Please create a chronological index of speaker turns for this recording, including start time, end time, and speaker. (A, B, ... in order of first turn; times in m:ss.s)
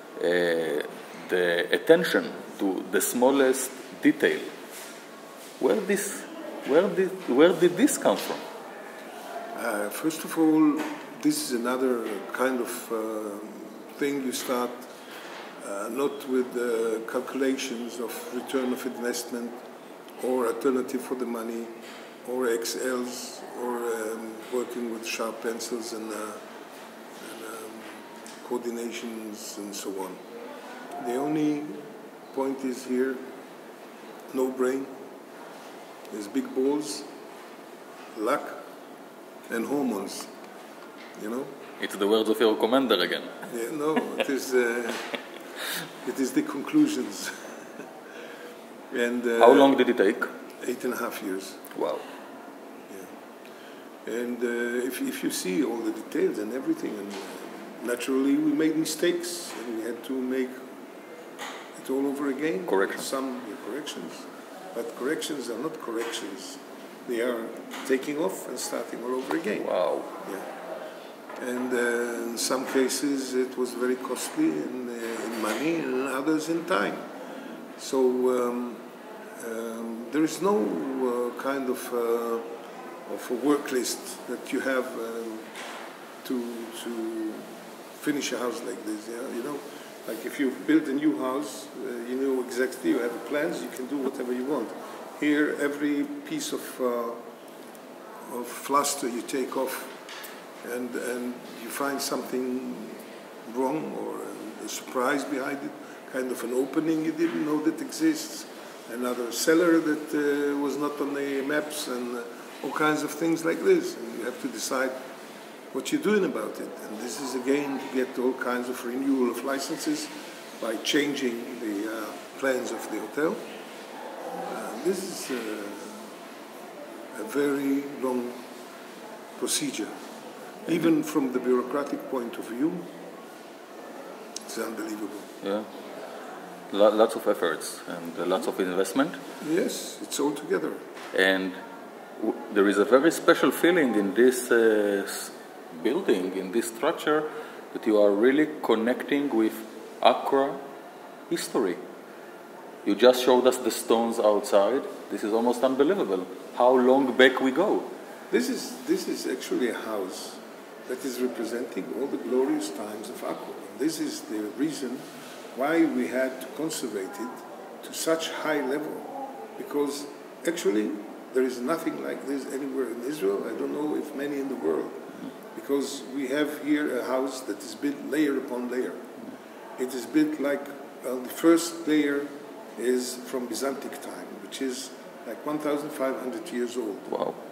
0:00.2-0:04.5 A
0:05.6-0:08.4 A
0:09.5-0:14.9 B
0:15.6-0:19.6 B
0:20.2-0:26.4 B
0:27.2-0:30.2 B
0:31.0-0:33.2 B
0:34.3-0:34.9 B
0:36.1-0:37.0 B
0:38.1-0:38.6 B
0:39.5-0:40.3 B
0:41.2-0:41.5 B
0:41.8-0:43.3 A
0:43.4-0:45.2 B
0:46.0-0:47.4 B
0:48.9-0:49.8 B
0:49.4-0:50.3 A
0:50.6-0:51.6 B
0:51.7-0:52.0 A
0:54.0-1:00.5 B
1:01.7-1:10.5 B
1:02.7-1:03.0 A
1:09.6-1:10.1 A
1:11.4-1:17.0 B
1:17.8-1:18.8 B
1:19.4-1:22.5 B
1:23.1-1:25.5 B
1:26.2-1:37.2 B
1:38.2-1:39.9 B
1:40.6-1:55.0 B
1:55.7-2:03.4 B
2:04.4-2:06.1 B
2:07.1-2:08.4 B
2:09.4-2:09.9 B
2:10.6-2:12.8 B
2:14.5-2:15.3 B
2:15.4-2:15.7 A
2:16.7-2:19.2 A
2:19.4-2:20.8 B
2:21.1-2:21.6 A
2:22.2-2:30.6 A
2:31.3-2:31.8 A
2:32.8-2:37.9 A
2:38.3-2:45.0 B
2:45.5-2:59.0 B
2:59.8-3:07.2 B
3:07.1-3:07.4 A